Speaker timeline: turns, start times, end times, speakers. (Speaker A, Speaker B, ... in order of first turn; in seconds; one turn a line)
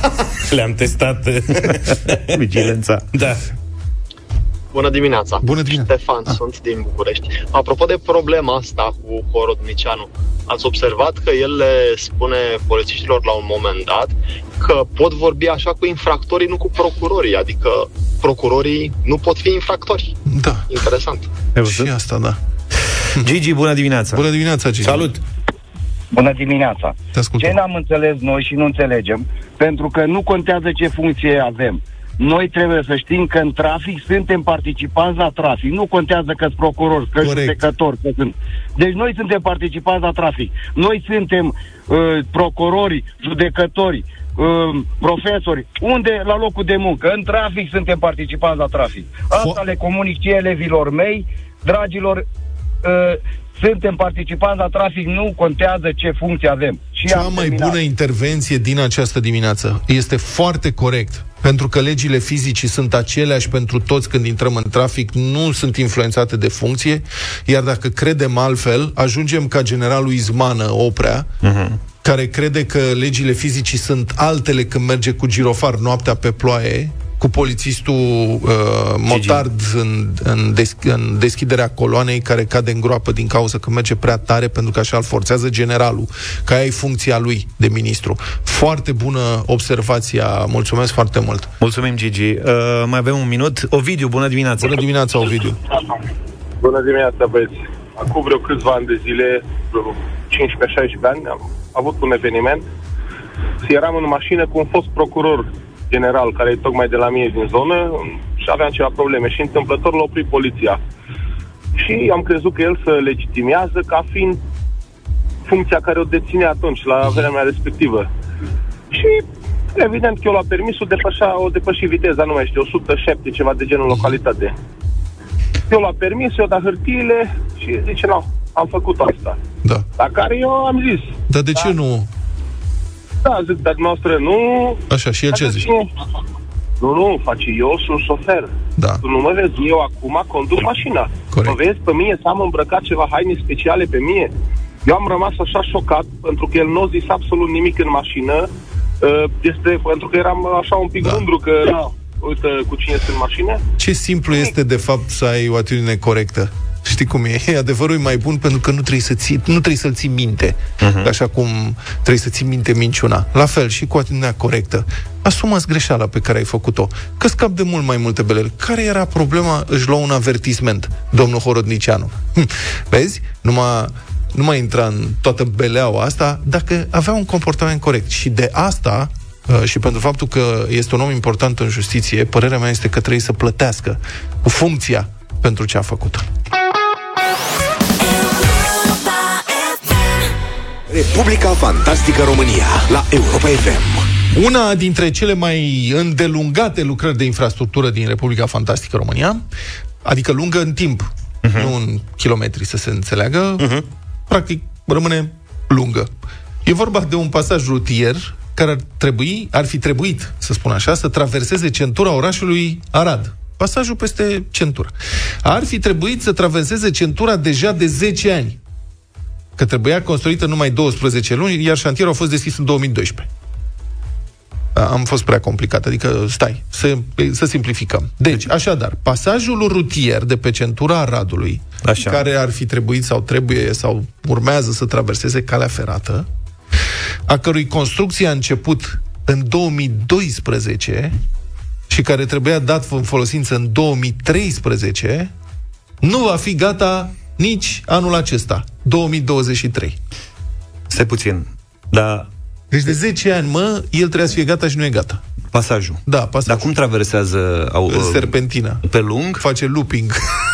Speaker A: 0.5-2.2
Speaker B: 2.3-3.0
Speaker A: 3.1-3.4
Speaker C: 4.7-20.1
Speaker D: 5.4-6.4
Speaker D: 20.3-20.7
Speaker C: 20.7-21.3
Speaker B: 21.6-21.9
Speaker D: 21.6-22.4
Speaker B: 23.2-24.2
Speaker D: 24.1-25.1
Speaker A: 24.8-25.2
Speaker E: 26.1-52.2
Speaker D: 27.1-27.6
Speaker D: 37.2-37.6
Speaker D: 49.3-49.6
Speaker E: 52.8-57.8
Speaker D: 57.0-71.3
Speaker B: 71.4-71.8
Speaker D: 72.0-91.5
Speaker B: 79.1-79.5
Speaker B: 91.6-94.8
Speaker D: 94.6-95.6
Speaker F: 96.6-102.6
Speaker F: 103.6-110.8
Speaker F: 111.8-114.4
Speaker F: 115.5-118.1
Speaker F: 118.9-124.5
Speaker F: 125.7-129.4
Speaker F: 130.0-131.2
Speaker D: 131.3-132.1
Speaker F: 133.2-135.9
Speaker D: 134.9-135.7
Speaker F: 136.8-138.5
Speaker D: 138.8-139.0
Speaker F: 139.0-144.3
Speaker D: 141.3-141.6
Speaker F: 144.8-148.5
Speaker F: 149.0-153.6
Speaker D: 153.8-186.2
Speaker B: 160.8-161.1
Speaker G: 190.9-194.1
Speaker D: 194.3-199.4
Speaker D: 200.0-203.7
Speaker B: 201.4-201.7
Speaker A: 203.6-203.8
Speaker D: 204.3-206.1
Speaker D: 206.6-218.6
Speaker D: 219.6-223.3
Speaker D: 224.7-236.3
Speaker B: 231.8-232.2
Speaker D: 237.3-241.1
Speaker D: 241.9-245.3
Speaker D: 246.0-250.0
Speaker B: 250.9-252.3
Speaker D: 252.7-255.2
Speaker B: 255.5-259.4
Speaker D: 256.1-256.7
Speaker D: 257.9-258.8
Speaker D: 259.4-260.3